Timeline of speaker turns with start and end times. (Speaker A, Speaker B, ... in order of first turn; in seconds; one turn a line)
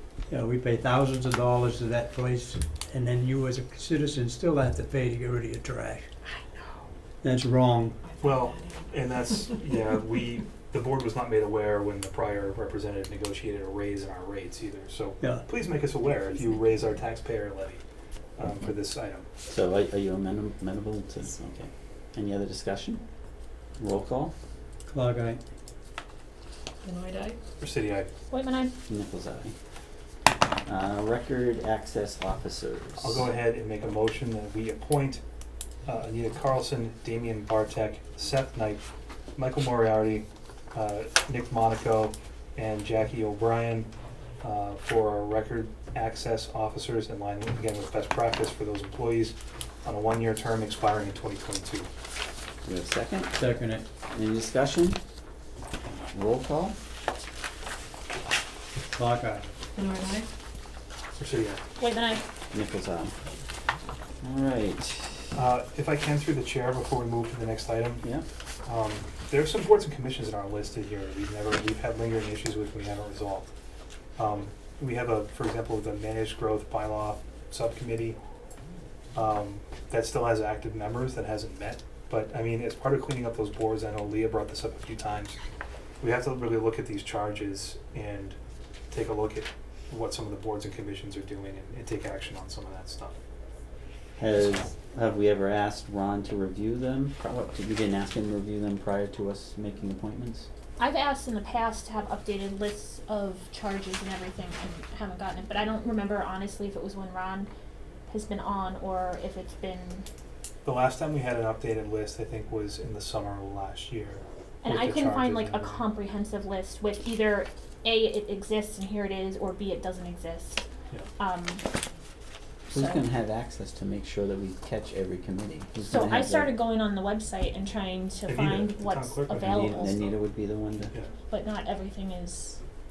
Speaker A: 0.3-6.1
Speaker B: 6.2-6.8
Speaker A: 7.2-8.0
Speaker C: 8.0-9.6
Speaker D: 8.2-17.8
Speaker A: 15.2-15.4
Speaker C: 16.3-17.0
Speaker D: 18.4-19.3
Speaker E: 19.4-23.1
Speaker E: 23.7-24.3
Speaker A: 24.9-25.4
Speaker C: 26.8-27.4
Speaker D: 27.6-28.1
Speaker B: 28.3-28.7
Speaker E: 28.9-29.5
Speaker E: 30.6-33.3
Speaker D: 33.0-35.2
Speaker D: 35.8-38.8
Speaker D: 39.4-43.9
Speaker D: 44.4-51.9
Speaker E: 52.6-53.3
Speaker A: 53.4-53.8
Speaker E: 54.1-55.0
Speaker E: 56.1-56.8
Speaker A: 58.9-59.5
Speaker C: 59.7-60.3
Speaker D: 61.2-61.6
Speaker B: 61.8-62.2
Speaker E: 62.5-63.1
Speaker E: 64.2-65.3
Speaker D: 65.3-68.1
Speaker D: 68.6-73.5
Speaker D: 74.2-78.2
Speaker D: 79.1-85.4
Speaker D: 86.0-88.3
Speaker D: 88.9-93.2
Speaker E: 94.2-100.5
Speaker B: 100.8-107.5
Speaker B: 108.1-110.0
Speaker D: 110.6-115.9
Speaker B: 114.6-120.6
Speaker B: 121.2-121.6
Speaker E: 122.7-126.5
Speaker B: 122.7-123.0
Speaker B: 125.8-130.1
Speaker D: 128.2-129.6
Speaker E: 129.3-130.9
Speaker B: 131.3-132.6